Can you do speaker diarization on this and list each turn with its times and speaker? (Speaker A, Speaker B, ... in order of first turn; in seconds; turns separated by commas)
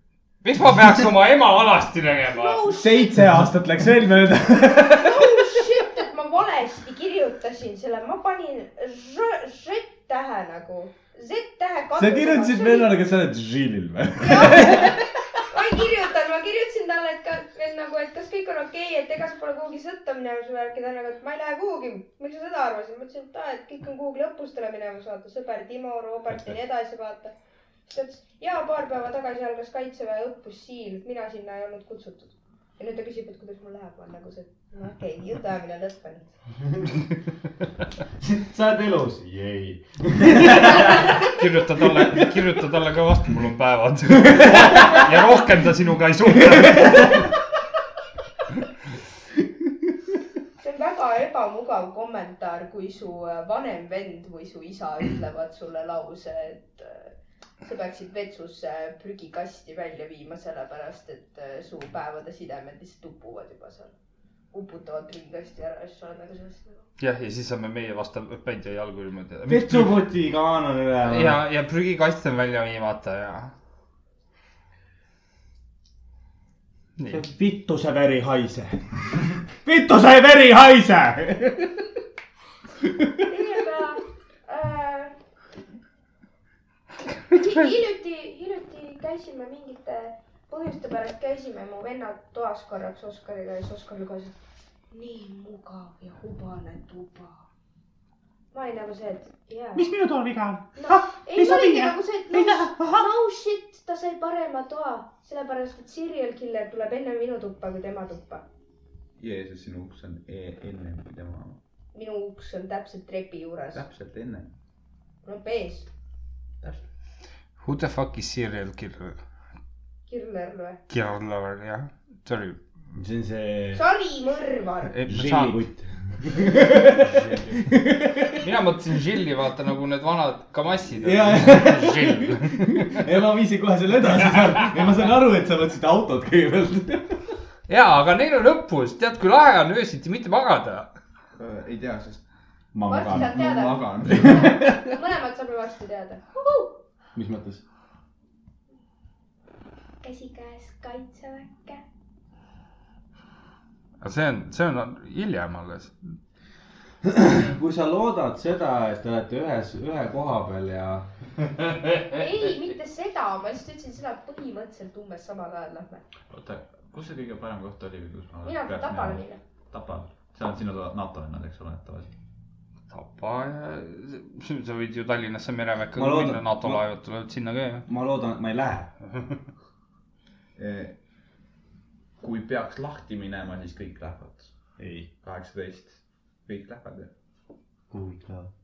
Speaker A: 0.4-2.6, Speaker B: 2.3-3.1, Speaker C: 2.6-5.5, Speaker B: 4.8-12.9, Speaker C: 11.9-15.0, Speaker B: 14.2-27.3, Speaker B: 27.9-36.3, Speaker C: 38.2-42.5, Speaker A: 40.6-47.3, Speaker C: 44.2-45.0, Speaker C: 46.6-47.2, Speaker B: 50.6-63.9, Speaker B: 64.5-66.8, Speaker A: 67.0-70.0, Speaker C: 69.5-71.4, Speaker A: 71.0-73.5, Speaker A: 77.0-77.2, Speaker C: 77.1-81.8, Speaker B: 83.2-85.2, Speaker B: 87.3-94.3, Speaker B: 94.9-97.4, Speaker B: 98.5-99.9, Speaker C: 99.7-103.1, Speaker B: 100.8-108.4, Speaker D: 109.2-111.6, Speaker B: 111.9-113.8, Speaker D: 113.7-114.5, Speaker B: 115.2-115.9, Speaker A: 117.6-119.2, Speaker B: 120.1-120.8, Speaker A: 120.9-122.6, Speaker C: 122.9-123.8, Speaker B: 123.7-124.9, Speaker A: 124.9-125.6, Speaker C: 125.1-128.5, Speaker D: 127.0-127.6, Speaker A: 128.4-133.0, Speaker C: 130.9-137.4, Speaker A: 134.3-134.7, Speaker A: 137.7-140.9, Speaker D: 141.4-142.2, Speaker C: 142.7-143.5, Speaker B: 142.9-146.7, Speaker D: 143.1-144.7, Speaker C: 144.1-144.8, Speaker C: 147.2-147.6, Speaker B: 150.0-151.8, Speaker A: 154.0-156.2, Speaker C: 157.0-161.1, Speaker B: 162.1-166.0, Speaker D: 166.3-172.1, Speaker B: 168.4-169.4, Speaker A: 172.9-177.8, Speaker C: 175.9-176.8, Speaker C: 177.9-178.9, Speaker A: 179.1-179.4, Speaker D: 180.6-180.9, Speaker D: 182.2-184.5, Speaker C: 184.8-185.1, Speaker D: 185.2-187.1, Speaker C: 187.9-188.5